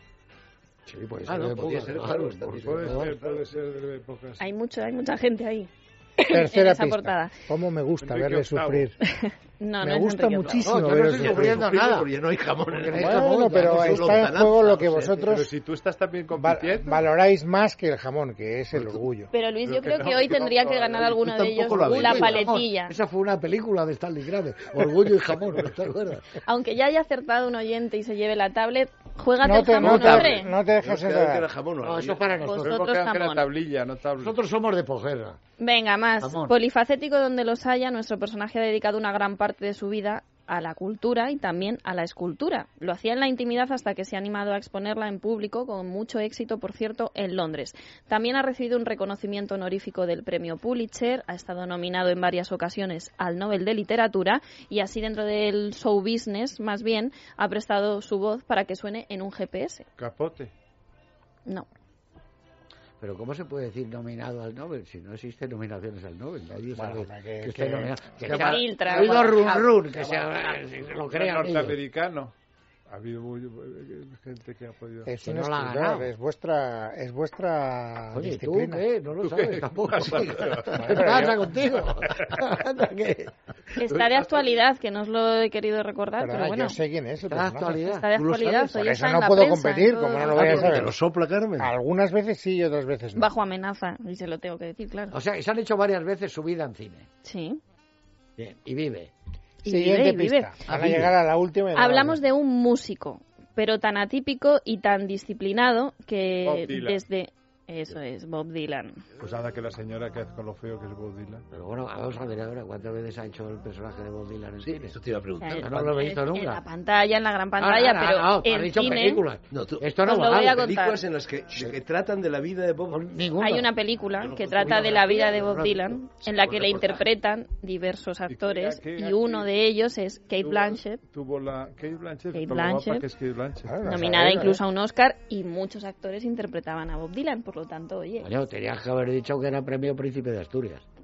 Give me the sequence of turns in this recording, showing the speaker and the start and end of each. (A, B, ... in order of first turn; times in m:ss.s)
0:00.9-0:03.2 A
0:01.2-0:03.2 B
0:02.6-0:04.4 C
0:04.4-0:07.3 D
0:06.2-0:09.0 E
0:08.0-0:08.9 C
0:09.2-0:10.7 D
0:09.8-0:11.7 E
0:10.5-0:12.1 A
0:11.0-0:15.3 B
0:12.7-0:14.2 A
0:12.9-0:15.5 E
0:15.2-0:17.1 C
0:16.4-0:19.3 E
0:19.3-0:22.9 D
0:19.6-0:21.1 C
0:21.0-0:22.5 B
0:21.6-0:26.4 A
0:26.5-0:30.5 D
0:29.4-0:31.5 E
0:29.8-0:32.4 B
0:31.8-0:32.8 A
0:32.4-0:33.5 D
0:32.6-0:34.4 C
0:34.2-0:35.4 A
0:35.6-0:59.8 D
0:36.2-0:36.5 A
1:00.0-1:00.5 C
1:03.0-1:11.8 A
1:06.7-1:08.3 E
1:08.2-1:10.4 B
1:08.2-1:09.3 D
1:11.1-1:12.3 C
1:12.9-1:15.1 C
1:15.0-1:18.9 E
1:15.2-1:16.1 A
1:18.1-1:23.3 A
1:19.2-1:21.1 C
1:20.8-1:21.4 E
1:23.8-1:26.8 D
1:23.9-1:24.5 C
1:26.2-1:27.8 E
1:27.2-1:28.1 A
1:27.9-1:30.8 D
1:28.2-1:28.8 B
1:28.7-1:31.0 E
1:30.3-1:31.7 B
1:31.6-1:33.3 E
1:33.2-1:35.2 D
1:35.1-1:37.1 A
1:37.2-1:37.6 D
1:38.4-1:39.1 A
1:39.6-1:40.5 D
1:39.6-1:42.2 E
1:40.7-1:41.1 B
1:41.7-1:49.0 D
1:46.4-1:47.0 C
1:49.2-1:51.4 C
1:51.5-1:55.0 A
1:54.6-1:56.0 B
1:55.4-1:59.2 D
1:55.6-1:56.6 A
1:57.6-2:00.7 A
1:59.5-2:03.2 B
2:00.0-2:01.0 D
2:02.9-2:03.7 A
2:03.4-2:11.0 D
2:04.2-2:07.0 B
2:04.6-2:06.0 A
2:08.3-2:09.5 C
2:10.4-2:13.8 C
2:12.3-2:13.1 D
2:13.7-2:14.6 E
2:13.8-2:18.3 D
2:18.2-2:20.8 A